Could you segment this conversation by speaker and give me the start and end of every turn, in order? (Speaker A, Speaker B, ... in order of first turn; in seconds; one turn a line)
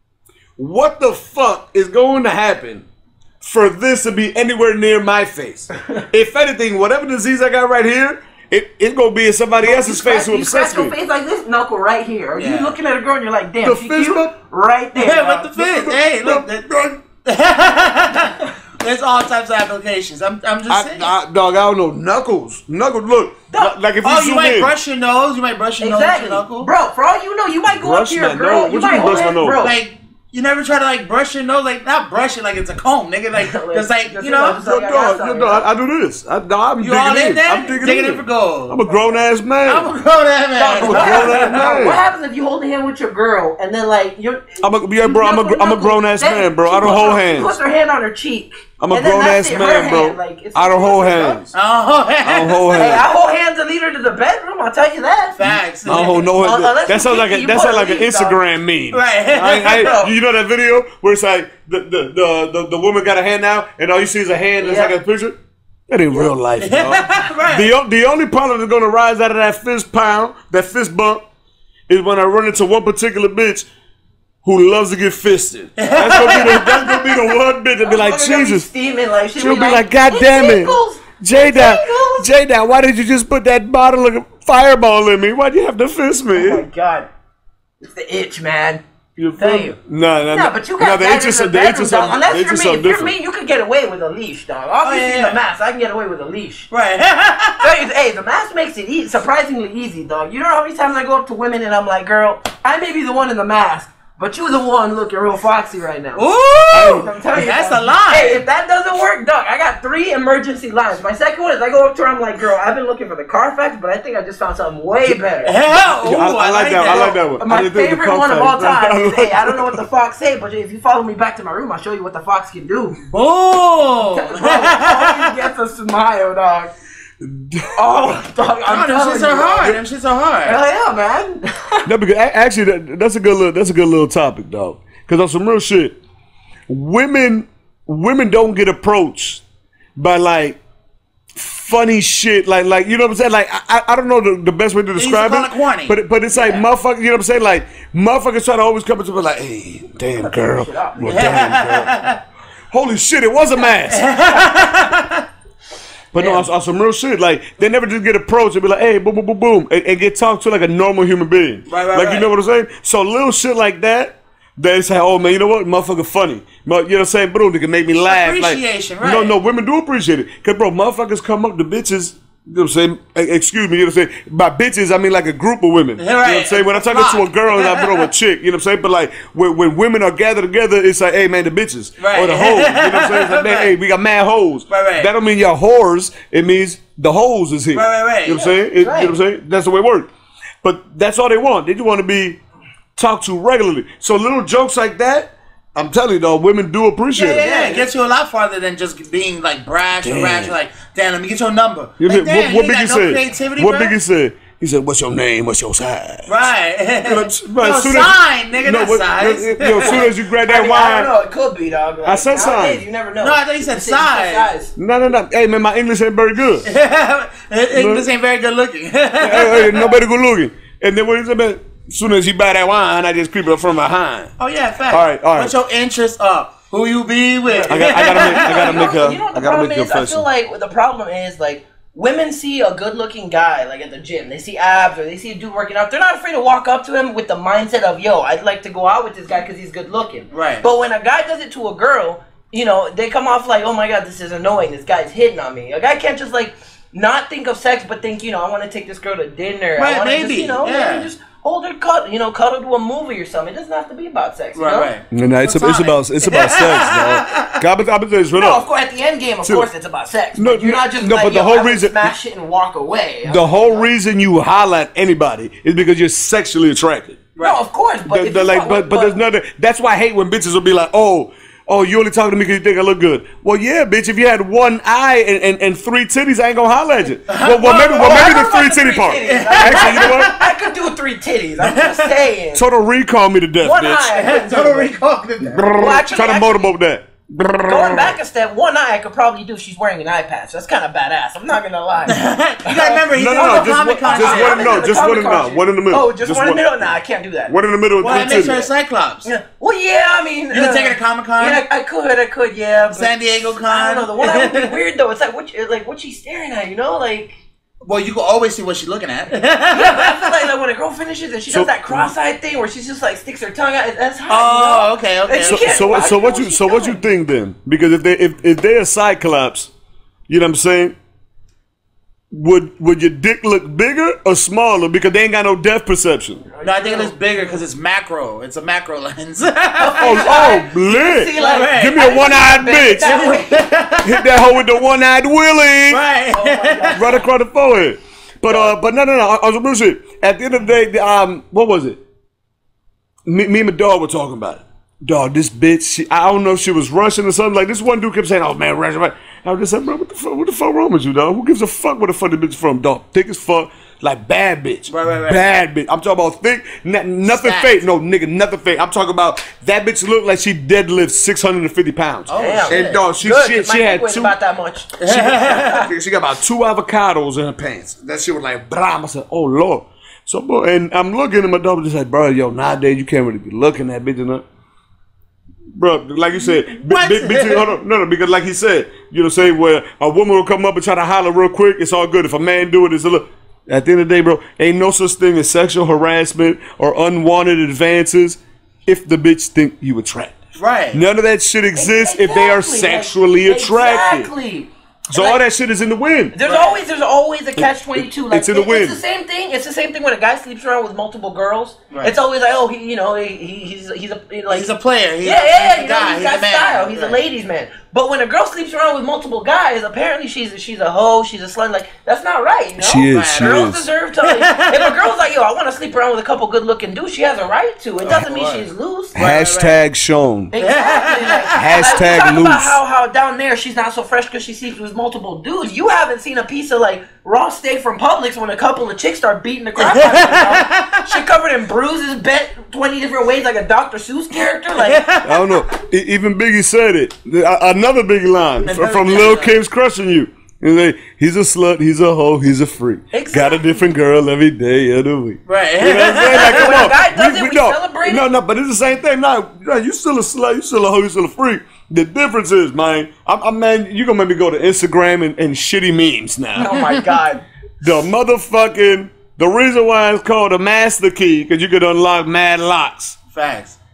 Speaker A: 0.6-2.9
Speaker A: 3.4-10.9
Speaker B: 9.6-15.5
Speaker C: 12.4-12.8
Speaker A: 13.6-14.3
Speaker C: 14.9-21.1
Speaker A: 15.5-17.0
Speaker A: 20.7-24.7
Speaker B: 23.5-23.8
Speaker C: 24.0-26.7
Speaker B: 25.8-29.8
Speaker A: 27.7-29.6
Speaker C: 29.6-34.6
Speaker B: 33.4-35.7
Speaker A: 34.5-39.9
Speaker C: 36.8-38.8
Speaker C: 39.6-41.7
Speaker B: 40.6-51.5
Speaker A: 40.8-42.0
Speaker A: 44.6-47.6
Speaker A: 48.8-51.5
Speaker C: 51.5-52.9
Speaker A: 52.2-53.1
Speaker B: 52.7-58.4
Speaker C: 55.4-56.3
Speaker A: 55.5-65.4
Speaker C: 58.9-60.0
Speaker B: 59.8-60.1
Speaker B: 64.6-65.0
Speaker A: 65.9-71.2
Speaker C: 66.6-67.7
Speaker A: 71.9-73.7
Speaker A: 74.4-78.7
Speaker C: 75.8-77.3
Speaker B: 77.8-82.3
Speaker A: 79.3-86.7
Speaker B: 86.3-87.1
Speaker B: 87.8-88.8
Speaker A: 89.2-93.2
Speaker B: 89.4-89.8
Speaker B: 90.3-96.7
Speaker C: 94.8-95.4
Speaker C: 96.7-97.7
Speaker B: 97.6-115.6
Speaker C: 106.1-108.4
Speaker A: 106.7-107.1
Speaker C: 115.4-117.2
Speaker A: 115.8-119.9
Speaker B: 117.4-123.0
Speaker C: 123.1-125.5
Speaker B: 124.0-126.7
Speaker A: 127.2-128.2
Speaker B: 127.8-129.8
Speaker C: 128.7-130.6
Speaker B: 130.4-131.9
Speaker A: 131.9-136.0
Speaker A: 136.7-139.4
Speaker A: 140.0-140.6
Speaker A: 141.4-152.0
Speaker C: 145.0-146.0
Speaker B: 146.3-146.6
Speaker B: 150.2-151.4
Speaker C: 151.0-152.2
Speaker A: 152.7-154.2
Speaker C: 153.8-155.2
Speaker A: 156.1-190.1
Speaker B: 156.2-156.4
Speaker C: 161.7-162.3
Speaker C: 168.0-169.4
Speaker C: 176.0-178.1
Speaker C: 182.0-183.7
Speaker C: 184.7-185.1
Speaker C: 187.7-188.4
Speaker B: 188.3-189.2
Speaker A: 190.6-192.4
Speaker A: 193.0-197.5
Speaker C: 197.1-204.0
Speaker B: 197.4-197.9
Speaker A: 200.0-200.6
Speaker A: 202.0-206.5
Speaker C: 206.3-210.1
Speaker A: 207.0-211.1
Speaker B: 209.8-214.7
Speaker A: 212.0-212.8
Speaker C: 213.2-214.5
Speaker A: 214.8-216.7
Speaker C: 216.7-220.0
Speaker A: 217.7-218.1
Speaker A: 219.2-224.3
Speaker C: 224.4-229.0
Speaker A: 224.9-225.6
Speaker B: 227.5-254.9
Speaker A: 227.7-230.3
Speaker C: 240.3-240.7
Speaker C: 249.8-251.1
Speaker C: 254.6-257.5
Speaker A: 255.1-258.6
Speaker B: 258.4-263.9
Speaker A: 259.4-259.7
Speaker A: 260.4-262.2
Speaker A: 263.3-267.2
Speaker B: 267.4-269.2
Speaker A: 268.1-280.3
Speaker C: 277.3-278.4
Speaker B: 277.6-282.6
Speaker C: 279.2-280.6
Speaker C: 281.6-282.1
Speaker A: 282.5-284.1
Speaker B: 283.6-284.9
Speaker C: 284.1-286.0
Speaker A: 285.4-288.2
Speaker B: 285.8-286.7
Speaker B: 287.7-297.6
Speaker C: 292.1-294.8
Speaker A: 293.1-296.9
Speaker A: 297.5-298.7
Speaker C: 298.0-299.3
Speaker B: 298.1-298.6
Speaker B: 299.2-303.1
Speaker C: 300.5-301.6
Speaker C: 302.9-304.8
Speaker B: 303.6-307.3
Speaker C: 307.9-310.5
Speaker B: 309.7-317.0
Speaker A: 311.5-312.1
Speaker C: 314.3-316.1
Speaker A: 315.4-319.7
Speaker A: 320.3-320.9
Speaker A: 322.3-326.4
Speaker B: 326.6-327.1
Speaker C: 326.6-330.5
Speaker B: 329.8-333.7
Speaker A: 330.0-333.3
Speaker C: 331.4-332.1
Speaker C: 333.0-334.6
Speaker A: 334.0-336.0
Speaker C: 335.9-337.1
Speaker B: 336.3-337.2
Speaker A: 336.9-342.0
Speaker A: 343.3-364.4
Speaker C: 354.9-355.4
Speaker C: 357.2-357.8
Speaker C: 362.3-363.0
Speaker B: 362.4-365.9
Speaker C: 365.0-365.8
Speaker A: 365.1-374.4
Speaker A: 375.8-390.4
Speaker C: 376.4-377.8
Speaker C: 390.6-391.0
Speaker A: 390.9-394.3
Speaker B: 391.8-395.4
Speaker A: 395.1-396.3
Speaker B: 396.3-404.7
Speaker C: 396.4-396.8
Speaker A: 397.6-399.0
Speaker C: 404.5-407.2
Speaker B: 405.2-419.8
Speaker A: 412.8-413.9
Speaker C: 413.1-413.7
Speaker C: 414.2-414.9
Speaker C: 418.0-418.7
Speaker A: 419.2-420.5
Speaker C: 419.2-419.5
Speaker B: 420.5-435.0
Speaker C: 420.6-422.1
Speaker A: 421.5-422.8
Speaker C: 429.8-431.0
Speaker C: 434.7-435.5
Speaker A: 435.2-456.9
Speaker C: 438.6-439.6
Speaker B: 443.1-443.9
Speaker C: 445.5-447.0
Speaker B: 446.3-448.3
Speaker B: 456.6-457.4
Speaker A: 457.8-463.2
Speaker C: 463.3-463.8